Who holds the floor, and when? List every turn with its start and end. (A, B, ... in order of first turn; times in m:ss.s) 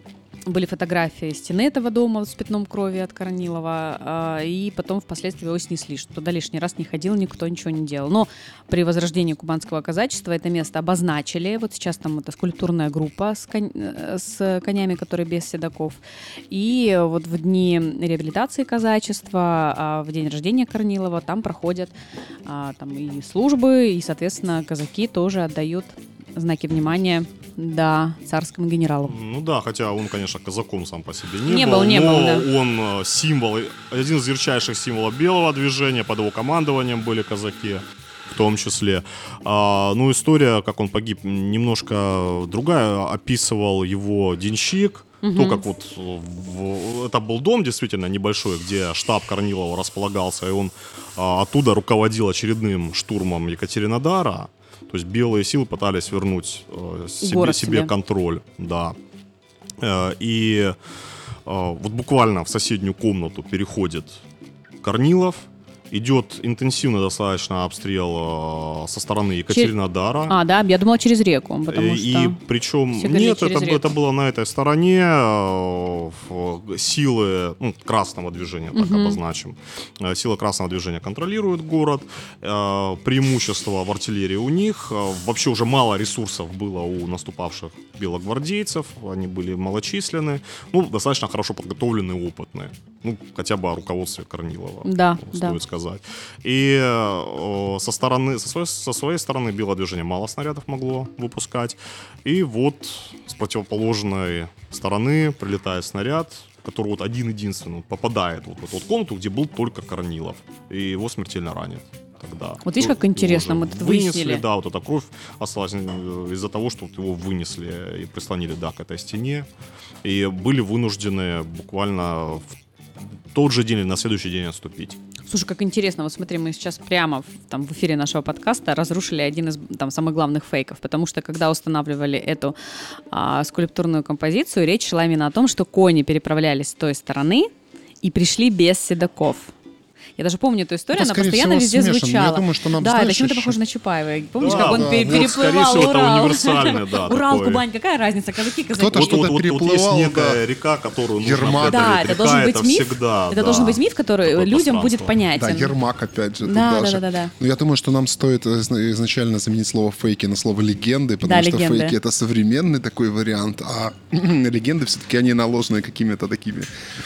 0:00.5-0:21.9 A
0:22.5-0:29.2 A
0:29.0-0:59.0 B
0:31.4-0:32.5 A
0:45.2-0:45.6 A
0:57.2-0:57.9 A
0:59.8-1:00.8 B
1:01.5-1:04.2 B
1:04.8-1:10.4 B
1:10.3-1:12.4 A
1:11.7-1:59.5 B
1:12.9-1:13.9 A
1:18.7-1:19.2 A
1:34.8-1:35.6 A
1:52.6-1:54.4 A
2:00.0-2:02.5 B
2:03.3-2:05.0 B
2:05.3-2:12.6 A
2:13.1-2:17.5 A
2:18.0-2:19.5 A
2:20.2-2:29.3 A
2:20.9-2:23.6 C
2:24.4-2:27.6 B
2:24.5-2:25.3 C
2:28.7-2:30.4 C
2:28.9-2:35.2 B
2:31.2-2:31.9 C
2:31.7-2:35.7 A
2:35.4-2:46.7 C
2:36.4-2:37.3 A
2:41.2-2:42.0 A